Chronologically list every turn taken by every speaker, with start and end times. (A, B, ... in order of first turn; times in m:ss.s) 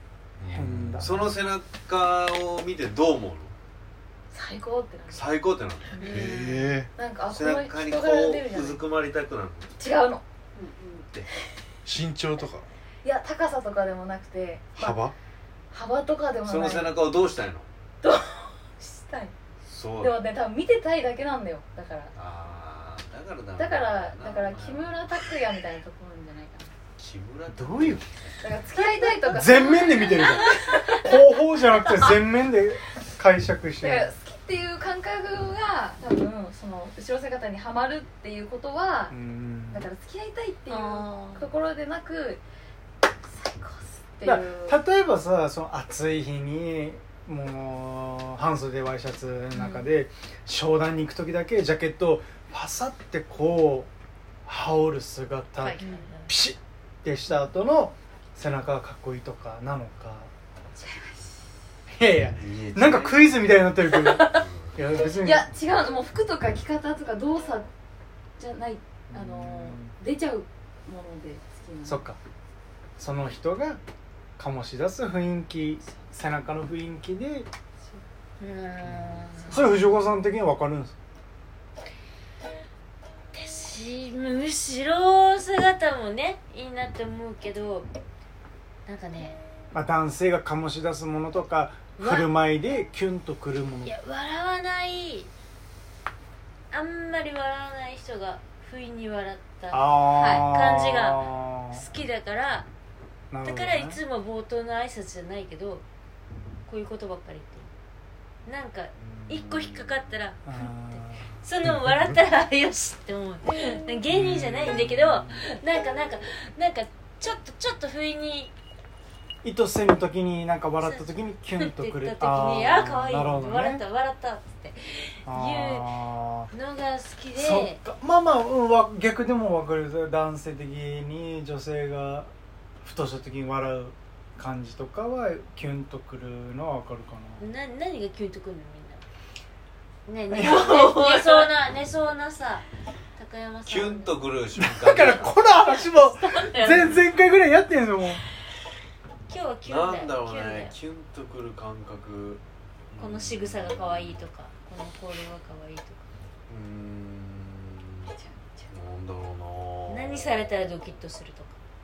0:00.4-0:01.3 A
0:00.5-0:01.2 B
0:01.0-0:03.5 C
0:04.3-0:05.4 D
0:05.1-0:06.1 C
0:06.0-0:06.6 E
0:06.0-0:08.8 D
0:06.0-0:06.9 A
0:07.2-0:09.7 C
0:09.8-0:11.0 D
0:11.8-0:12.7 A
0:13.0-0:15.1 D
0:14.8-0:15.1 A
0:15.7-0:17.1 D
0:16.4-0:17.7 C
0:18.0-0:19.3 D
0:19.6-0:20.2 C
0:19.9-0:22.1 D
0:22.1-0:25.1 C
0:23.6-0:26.7 D
0:27.0-0:28.6 C
0:27.5-0:28.0 B
0:28.4-0:32.3 D
0:28.7-0:34.1 B
0:33.8-0:39.1 D
0:39.1-0:39.9 B
0:39.7-0:42.4 D
0:40.7-0:41.5 E
0:43.2-0:44.8 D
0:44.2-0:53.9 B
0:49.5-0:49.9 D
0:54.4-1:00.3 B
0:55.6-0:56.3 E
0:55.8-0:56.1 D
1:00.7-1:01.4 D
1:02.0-1:05.5 B
1:02.4-1:03.7 C
1:03.9-1:07.7 D
1:04.3-1:04.8 C
1:08.4-1:12.1 D
1:09.1-1:10.0 B
1:11.8-1:12.2 B
1:13.0-1:13.8 B
1:14.4-1:17.5 B
1:18.4-1:19.6 E
1:19.4-1:19.8 D
1:19.5-1:20.9 B
1:23.3-1:27.9 E
1:28.8-1:29.4 E
1:29.7-1:33.9 B
1:32.0-1:32.3 E
1:33.8-1:35.3 E
1:36.7-1:42.6 E
1:39.7-1:41.8 B
1:40.1-1:40.4 D
1:43.3-1:44.0 B
1:43.4-1:45.8 E
1:46.7-1:47.7 E
1:48.4-1:58.5 E
1:49.2-1:49.7 C
1:50.4-1:51.3 B
1:51.6-1:52.2 A
1:54.1-1:55.2 B
1:59.4-2:03.8 B
2:00.8-2:07.8 E
2:05.2-2:06.5 B
2:07.3-2:12.3 B
2:12.8-2:17.4 B
2:17.4-2:19.0 E
2:20.0-2:22.6 E
2:20.3-2:20.6 B
2:20.4-2:21.4 D
2:23.2-2:24.2 E
2:23.7-2:25.4 C
2:24.5-2:28.2 B
2:26.3-2:26.8 D
2:29.3-2:30.7 E
2:29.6-2:32.4 C
2:32.9-2:34.2 C
2:33.0-2:36.1 E
2:36.5-2:38.1 C
2:38.1-2:38.7 D
2:38.7-2:40.5 C
2:39.9-2:41.6 E